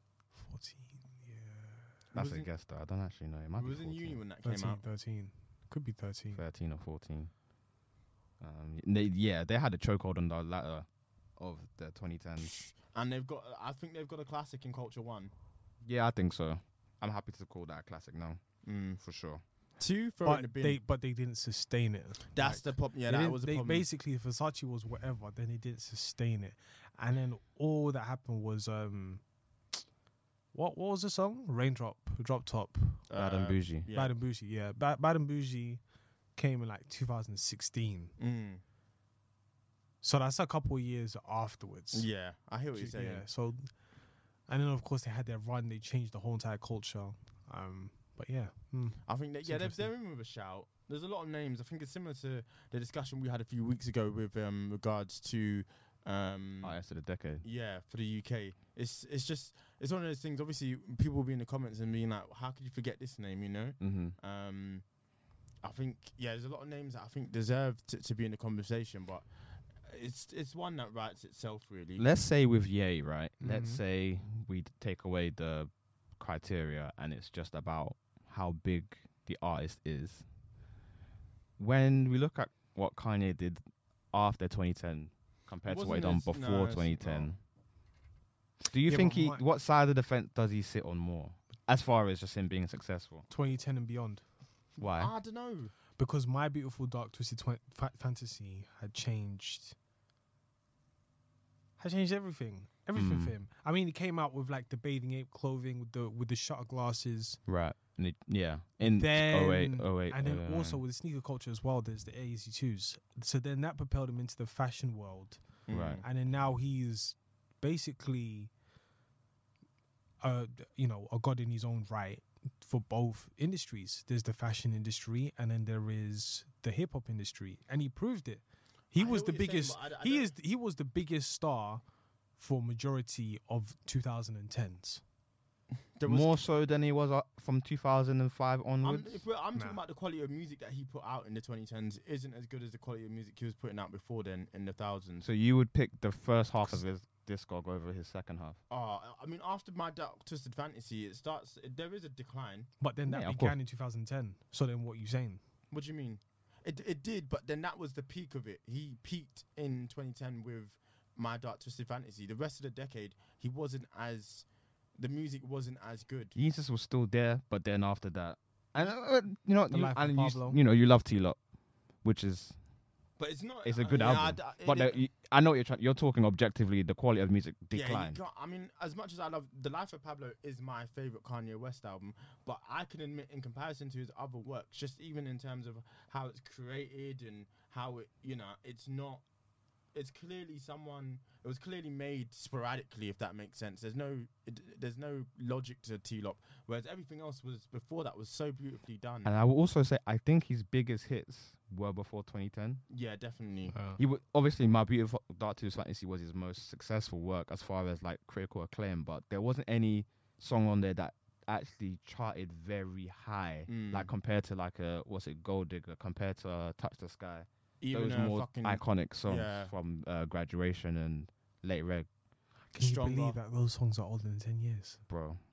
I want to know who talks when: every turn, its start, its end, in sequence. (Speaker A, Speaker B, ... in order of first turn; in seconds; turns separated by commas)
Speaker A: 0.3-2.0, Speaker B: 2.1-2.5, Speaker C: 2.1-4.2, Speaker B: 3.6-4.8, Speaker A: 4.4-6.4, Speaker C: 6.3-7.3, Speaker C: 8.4-10.9, Speaker C: 11.4-12.5, Speaker B: 12.4-15.3, Speaker C: 15.8-18.4, Speaker B: 18.6-19.0, Speaker C: 19.0-19.4, Speaker B: 19.8-20.8, Speaker A: 20.2-29.2, Speaker B: 22.3-23.9, Speaker A: 30.5-33.0, Speaker B: 33.1-34.2, Speaker C: 33.1-33.9, Speaker A: 33.9-35.8, Speaker A: 36.4-38.1, Speaker B: 38.2-38.6, Speaker A: 40.0-42.1, Speaker B: 41.9-43.2, Speaker A: 42.8-43.8, Speaker A: 44.5-49.9, Speaker B: 49.1-56.8, Speaker C: 56.6-57.5, Speaker B: 57.4-64.8, Speaker C: 63.8-64.2, Speaker B: 65.6-69.3, Speaker B: 69.9-72.1, Speaker C: 72.0-80.2, Speaker A: 73.4-73.8, Speaker C: 81.6-87.4, Speaker B: 85.7-87.3, Speaker C: 88.6-93.2, Speaker A: 88.9-89.5, Speaker A: 93.3-94.4, Speaker C: 94.8-95.1, Speaker B: 94.9-95.7, Speaker A: 96.0-99.8, Speaker A: 101.8-107.4, Speaker C: 103.0-103.3, Speaker C: 107.5-110.8, Speaker A: 108.8-118.5, Speaker B: 115.7-116.0, Speaker C: 115.7-116.0, Speaker A: 120.2-131.8, Speaker B: 128.9-130.3, Speaker A: 132.4-135.0, Speaker B: 136.0-136.3, Speaker C: 136.1-139.2, Speaker B: 138.8-145.2, Speaker C: 145.2-148.6, Speaker B: 148.7-152.7, Speaker A: 152.8-155.4, Speaker C: 153.1-153.6, Speaker B: 155.7-164.5, Speaker B: 165.0-166.3, Speaker C: 166.3-171.4, Speaker A: 169.7-170.6, Speaker C: 172.0-172.6, Speaker B: 173.2-175.0, Speaker C: 173.6-178.2, Speaker B: 177.7-189.2, Speaker B: 189.9-199.3, Speaker C: 199.2-202.8, Speaker B: 202.9-203.8, Speaker A: 203.7-204.0, Speaker C: 204.0-222.1, Speaker B: 213.7-214.1, Speaker B: 217.8-219.7, Speaker A: 222.7-225.0, Speaker B: 222.8-223.4, Speaker C: 225.1-225.4